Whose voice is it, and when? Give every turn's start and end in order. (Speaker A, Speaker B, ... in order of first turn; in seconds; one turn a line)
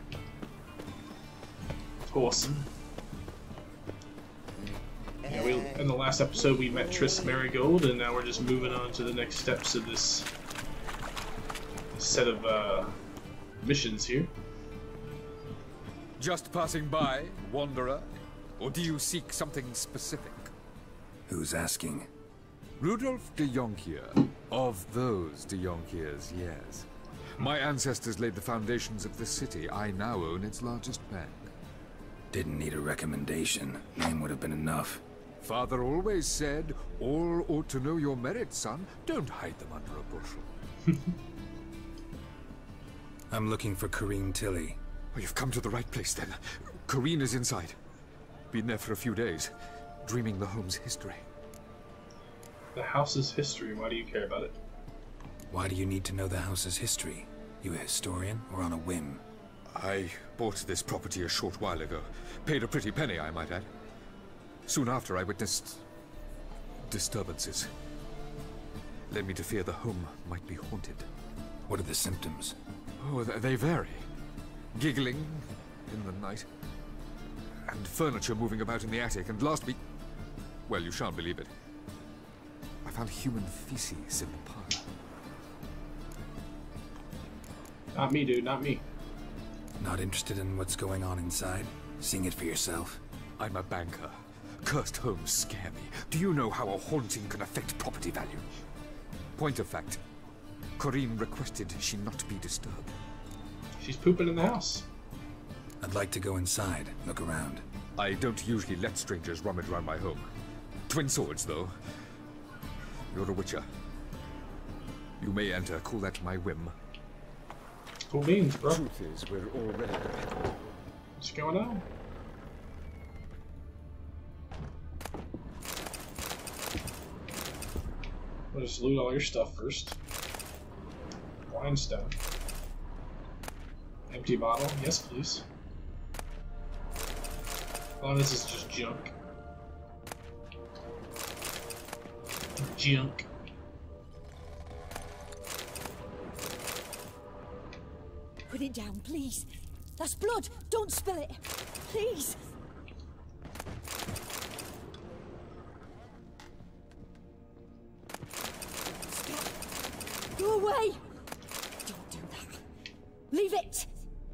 Speaker A: 2.1-2.7
Speaker A: 5.3-10.3
Speaker A: 11.9-12.9
Speaker A: 13.6-14.3
Speaker B: 16.2-20.5
Speaker C: 21.3-22.1
Speaker B: 22.8-31.5
Speaker C: 32.3-35.0
Speaker B: 35.4-40.5
Speaker C: 43.3-44.8
Speaker B: 45.1-47.8
Speaker B: 48.5-49.5
Speaker B: 50.0-51.2
Speaker A: 52.8-54.6
Speaker C: 55.5-59.2
Speaker B: 59.7-63.7
Speaker B: 64.7-65.8
Speaker B: 66.8-67.7
Speaker B: 69.1-71.1
Speaker C: 71.7-72.6
Speaker B: 73.0-74.1
Speaker B: 74.7-76.5
Speaker B: 77.6-79.8
Speaker B: 80.7-81.5
Speaker B: 82.8-84.9
Speaker A: 87.9-88.8
Speaker C: 89.8-93.0
Speaker B: 93.4-98.5
Speaker B: 99.4-100.0
Speaker B: 100.8-102.9
Speaker A: 103.8-104.9
Speaker C: 105.8-107.7
Speaker B: 108.0-110.2
Speaker B: 110.9-111.7
Speaker B: 113.1-113.7
Speaker B: 115.2-116.7
Speaker A: 118.1-118.8
Speaker B: 118.6-120.7
Speaker A: 121.2-121.9
Speaker A: 128.5-130.0
Speaker A: 131.5-132.2
Speaker A: 134.1-135.5
Speaker A: 138.0-139.1
Speaker A: 142.6-143.3
Speaker D: 148.5-152.4
Speaker D: 158.9-159.5
Speaker D: 160.3-161.0
Speaker D: 161.8-162.6
Speaker D: 163.3-163.9